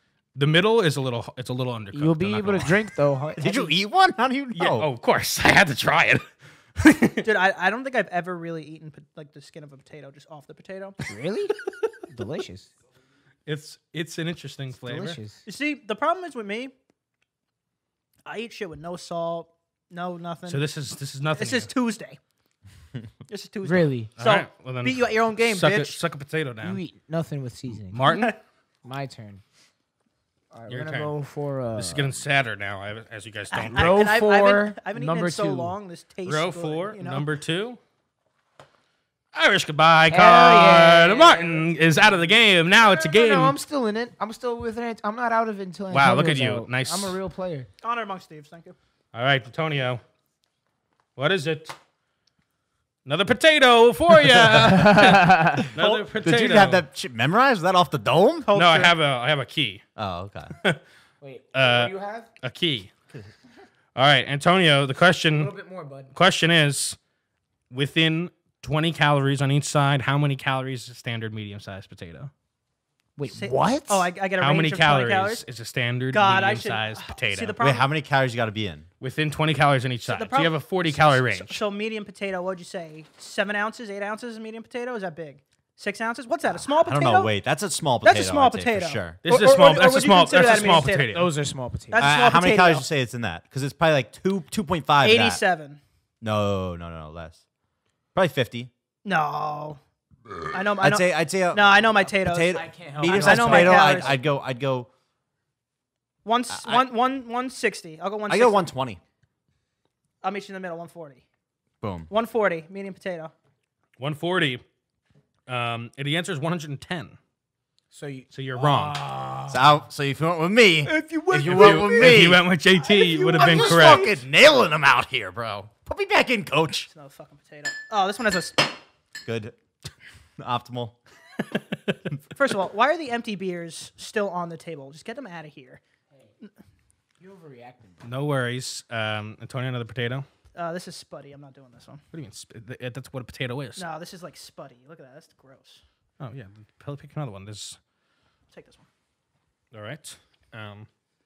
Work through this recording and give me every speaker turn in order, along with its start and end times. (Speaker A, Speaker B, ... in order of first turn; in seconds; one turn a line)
Speaker A: 0.3-2.8
Speaker B: 1.9-3.7
Speaker C: 3.4-4.9
Speaker A: 4.5-6.2
Speaker A: 6.8-7.2
Speaker D: 7.2-11.0
Speaker B: 11.0-11.5
Speaker B: 12.1-12.7
Speaker A: 13.4-15.2
Speaker B: 14.7-15.4
Speaker D: 15.4-16.7
Speaker D: 18.2-20.6
Speaker A: 20.5-21.7
Speaker D: 21.3-22.2
Speaker D: 23.3-26.0
Speaker B: 23.6-24.1
Speaker A: 24.2-26.8
Speaker B: 26.6-28.0
Speaker A: 27.9-28.3
Speaker D: 28.0-28.4
Speaker B: 28.8-29.4
Speaker B: 30.5-32.2
Speaker A: 30.7-31.1
Speaker A: 31.8-34.1
Speaker B: 33.5-35.8
Speaker D: 33.7-37.2
Speaker A: 36.2-37.8
Speaker A: 39.3-43.6
Speaker B: 40.1-47.7
Speaker A: 45.9-47.2
Speaker D: 47.8-48.7
Speaker A: 49.1-50.0
Speaker A: 51.1-51.8
Speaker A: 53.0-56.8
Speaker B: 54.4-55.7
Speaker D: 55.8-56.1
Speaker C: 56.2-58.5
Speaker D: 58.5-58.9
Speaker A: 58.5-59.8
Speaker C: 60.0-60.5
Speaker B: 61.2-62.3
Speaker A: 61.5-62.9
Speaker A: 63.9-65.5
Speaker B: 65.3-66.1
Speaker A: 66.1-67.0
Speaker A: 67.7-72.3
Speaker B: 73.2-74.1
Speaker D: 73.2-75.4
Speaker A: 74.4-77.6
Speaker D: 76.1-77.9
Speaker C: 77.6-78.9
Speaker A: 79.0-81.6
Speaker D: 80.1-87.3
Speaker C: 86.5-89.2
Speaker D: 88.0-91.3
Speaker A: 89.2-91.3
Speaker B: 90.4-92.1
Speaker D: 91.9-92.8
Speaker C: 92.0-95.4
Speaker D: 95.0-95.8
Speaker C: 96.2-97.4
Speaker C: 98.1-98.7
Speaker D: 99.0-99.8
Speaker D: 100.5-104.2
Speaker C: 100.8-104.9
Speaker B: 102.5-104.2
Speaker D: 106.2-108.7
Speaker C: 106.5-106.9
Speaker C: 108.3-109.0
Speaker D: 110.2-111.2
Speaker C: 111.8-112.1
Speaker D: 112.1-113.3
Speaker A: 114.0-114.6
Speaker A: 115.5-117.2
Speaker B: 117.9-119.7
Speaker A: 118.3-119.0
Speaker C: 119.5-122.4
Speaker D: 120.9-122.2
Speaker A: 121.5-124.1
Speaker D: 122.8-124.2
Speaker C: 123.3-126.9
Speaker D: 126.9-128.8
Speaker C: 129.2-129.6
Speaker C: 130.4-131.0
Speaker A: 131.5-131.9
Speaker D: 132.3-135.8
Speaker B: 137.2-138.1
Speaker A: 138.0-140.2
Speaker D: 140.5-142.0
Speaker A: 142.1-143.8
Speaker D: 143.8-145.8
Speaker A: 146.2-147.8
Speaker D: 148.5-148.9
Speaker A: 149.7-150.9